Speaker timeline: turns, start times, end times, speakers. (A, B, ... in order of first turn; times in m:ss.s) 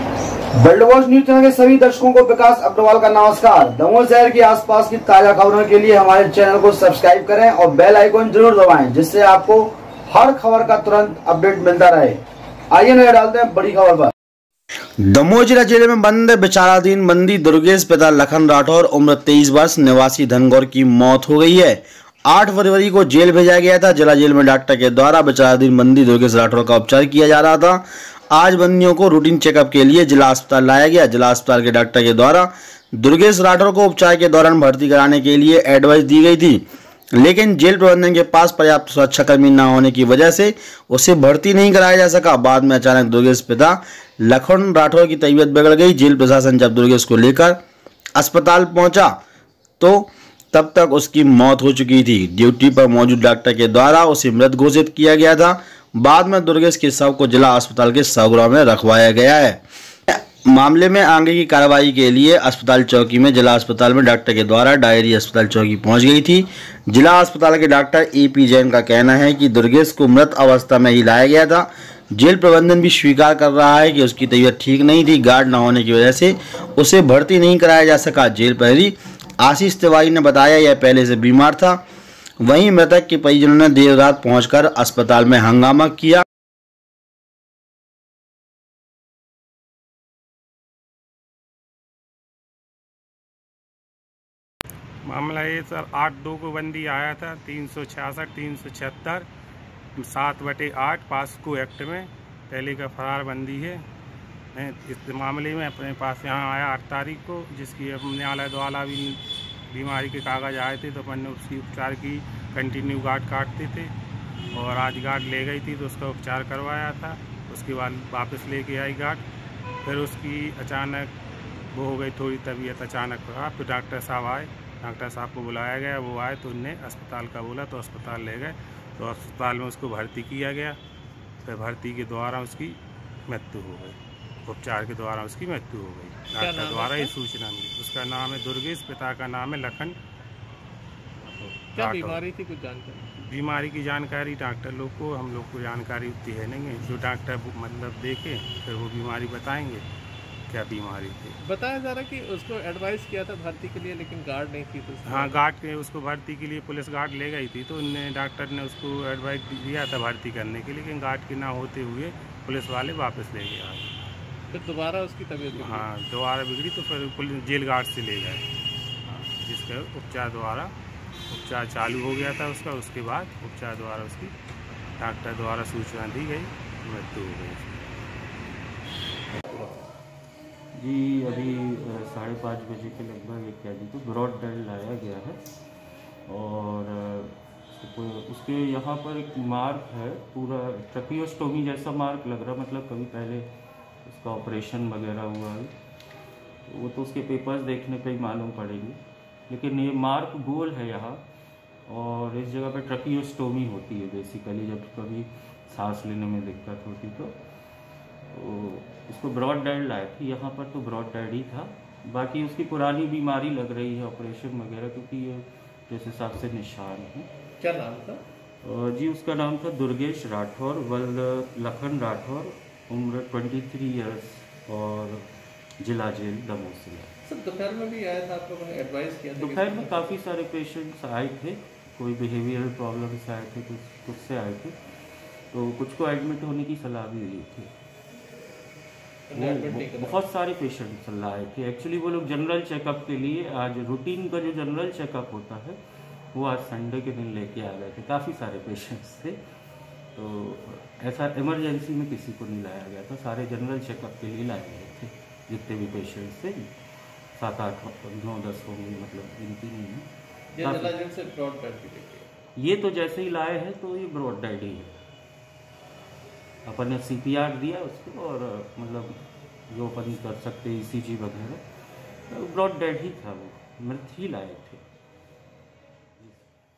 0:00.6-0:12.2 A
0:12.7-0:14.1 A
0:15.0-0:36.6 B
0:37.2-0:47.6 B
0:48.2-0:49.2 B
0:49.8-1:21.8 B
1:22.4-1:26.2 B
1:35.0-1:39.3 C
1:40.0-1:43.8 C
1:44.5-1:53.9 C
1:54.5-1:59.2 C
1:59.8-2:01.1 C
2:01.7-2:10.8 C
2:11.4-2:20.0 C
2:16.4-2:17.1 D
2:21.3-2:22.2 C
2:21.7-2:23.1 D
2:23.2-2:29.8 C
2:30.5-2:31.4 C
2:31.4-2:35.4 D
2:35.0-2:43.9 C
2:44.5-2:45.9 D
2:45.6-2:48.4 C
2:49.0-2:50.7 C
2:51.3-2:54.3 C
2:55.0-2:57.7 C
2:59.5-2:59.8 D
3:00.7-3:05.4 E
3:06.3-3:13.5 E
3:14.0-3:15.7 E
3:16.7-3:21.2 E
3:21.9-3:27.4 E
3:28.3-3:37.3 E
3:37.6-3:38.2 D
3:38.6-3:45.3 E
3:45.8-3:47.1 E
3:47.2-3:50.2 D
3:49.4-3:54.8 E
3:55.5-3:57.7 E
3:59.3-4:00.2 D
3:59.3-4:05.8 E
4:06.3-4:09.4 E
4:10.1-4:16.7 E
4:17.4-4:20.1 E
4:20.5-4:22.3 D
4:20.6-4:21.0 E
4:22.6-4:25.0 E
4:26.6-4:31.6 E
4:32.3-4:34.8 E